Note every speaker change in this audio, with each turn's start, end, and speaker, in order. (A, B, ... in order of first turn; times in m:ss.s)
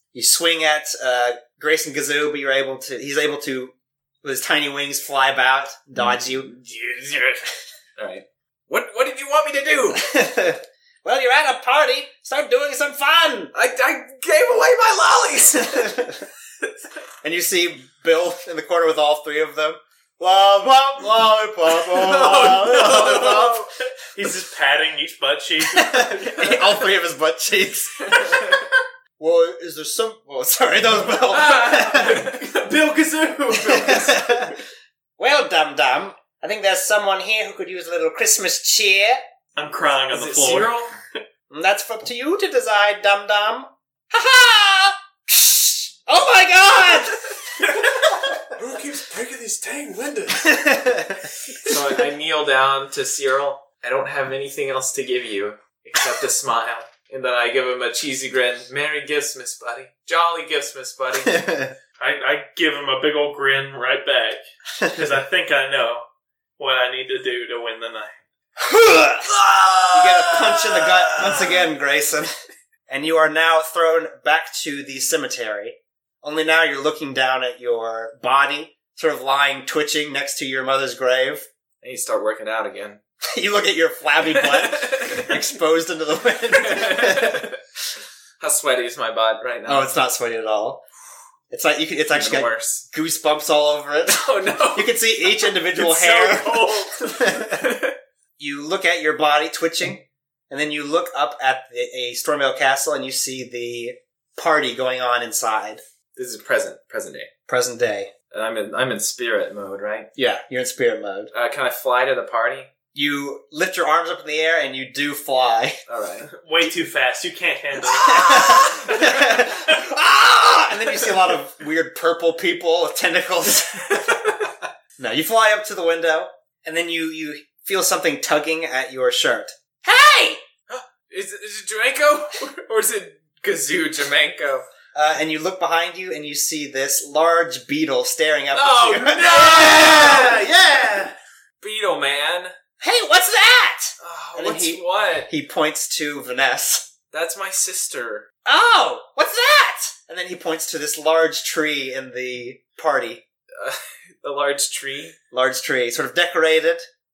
0:00.1-0:06.5 A
0:06.0-0:10.0 B
0:10.0-0:13.5 A
0:13.5-0:16.0 B
0:15.6-0:16.2 A
0:17.2-0:23.7 A
0:22.0-0:26.8 C
0:22.0-0:23.2 B
0:25.7-0:28.7 A
0:29.2-0:32.3 A
0:31.3-0:32.5 B
0:31.4-0:34.6 C
0:33.6-0:34.6 A
0:35.2-0:39.2 A
0:39.6-0:40.9 C
0:40.1-0:40.9 B
0:41.5-0:47.2 A
0:48.6-0:50.6 D
0:50.4-0:51.2 A
0:51.6-1:01.4 B
1:01.3-1:01.7 A
1:02.0-1:06.0 C
1:06.6-1:08.1 C
1:08.6-1:09.4 A
1:09.2-1:11.5 B
1:09.9-1:12.3 A
1:12.9-1:21.5 A
1:21.8-1:23.0 B
1:23.2-1:27.5 A
1:24.2-1:25.4 B
1:26.5-1:27.6 B
1:28.4-1:29.9 B
1:29.7-1:30.8 A
1:31.5-1:37.7 A
1:32.1-1:32.8 B
1:34.1-1:35.0 B
1:35.8-1:36.9 C
1:36.8-1:38.0 B
1:38.4-1:45.8 A
1:46.2-1:47.3 B
1:47.5-1:48.1 A
1:48.3-1:50.1 B
1:50.2-1:51.3 A
1:51.3-1:52.7 B
1:52.9-1:55.8 A
1:55.9-1:56.3 B
1:56.3-1:59.4 C
1:58.0-2:04.2 A
2:03.9-2:04.5 B
2:05.0-2:10.4 A
2:10.7-2:14.7 B
2:14.9-2:21.2 A
2:18.5-2:20.4 B
2:21.6-2:22.6 B
2:22.8-2:26.9 A
2:24.0-2:25.3 B
2:27.1-2:28.3 B
2:28.4-2:33.2 A
2:33.6-2:35.2 B
2:35.3-2:36.9 A